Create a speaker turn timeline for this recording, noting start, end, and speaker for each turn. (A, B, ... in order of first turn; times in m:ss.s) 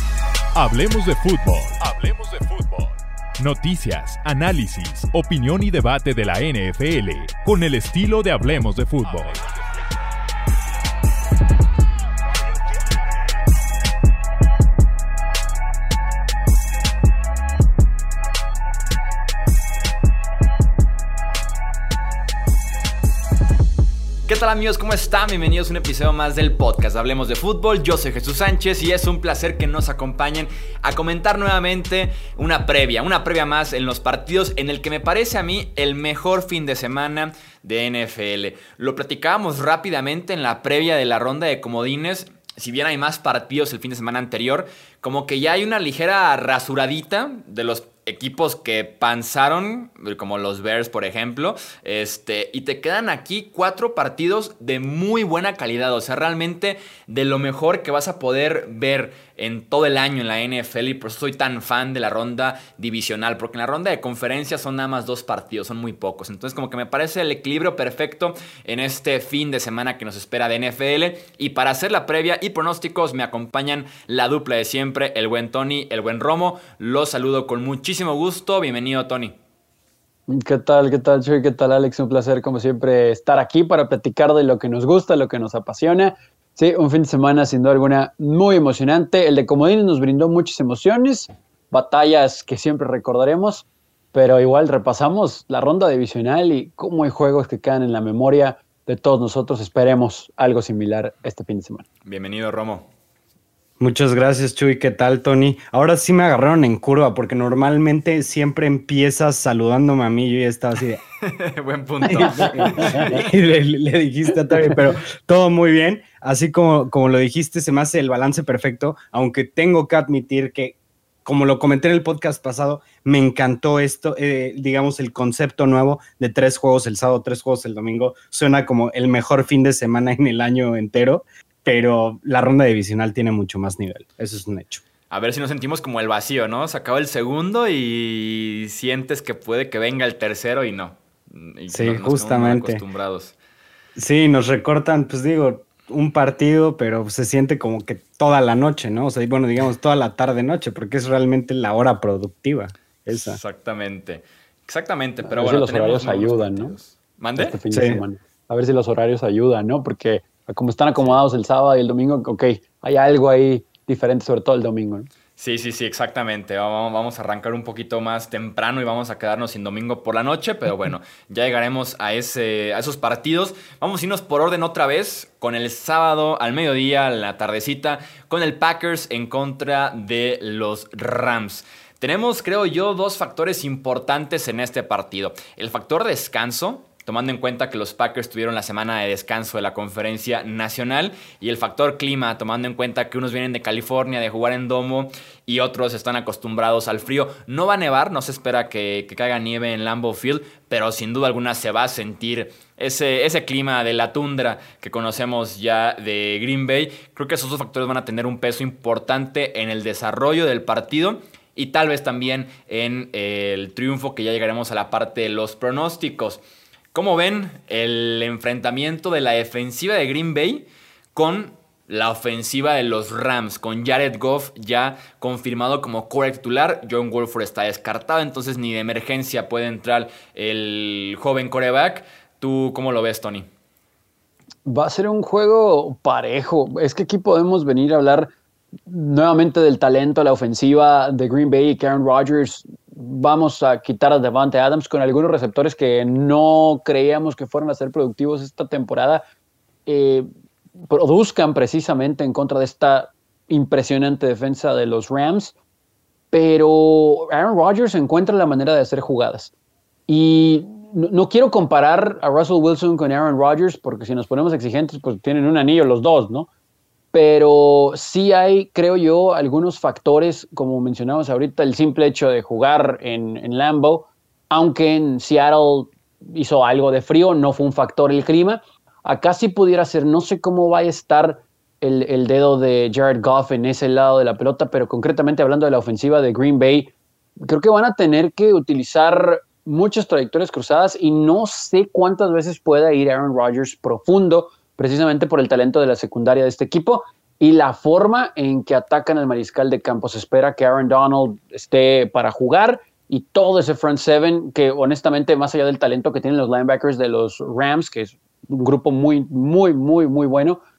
0:00.5-0:09.4 A
0:24.3-1:19.4 B
1:20.3-1:41.8 C
1:42.0-1:42.9 B
1:43.8-1:51.0 D
1:51.2-1:53.2 B
1:52.1-2:14.8 D
1:52.2-1:53.1 C
2:15.1-2:23.3 B
2:21.7-2:22.8 D
2:24.0-2:33.4 D
2:33.1-2:37.6 B
2:35.2-2:36.8 C
2:37.4-2:45.1 C
2:37.7-2:38.0 D
2:45.4-3:36.4 B
3:36.9-3:53.5 B
3:54.6-3:58.3 C
3:58.9-4:09.2 C
4:09.8-4:10.3 C
4:10.8-4:15.5 C
4:16.3-4:19.5 C
4:20.1-4:26.5 C
4:27.1-5:10.6 C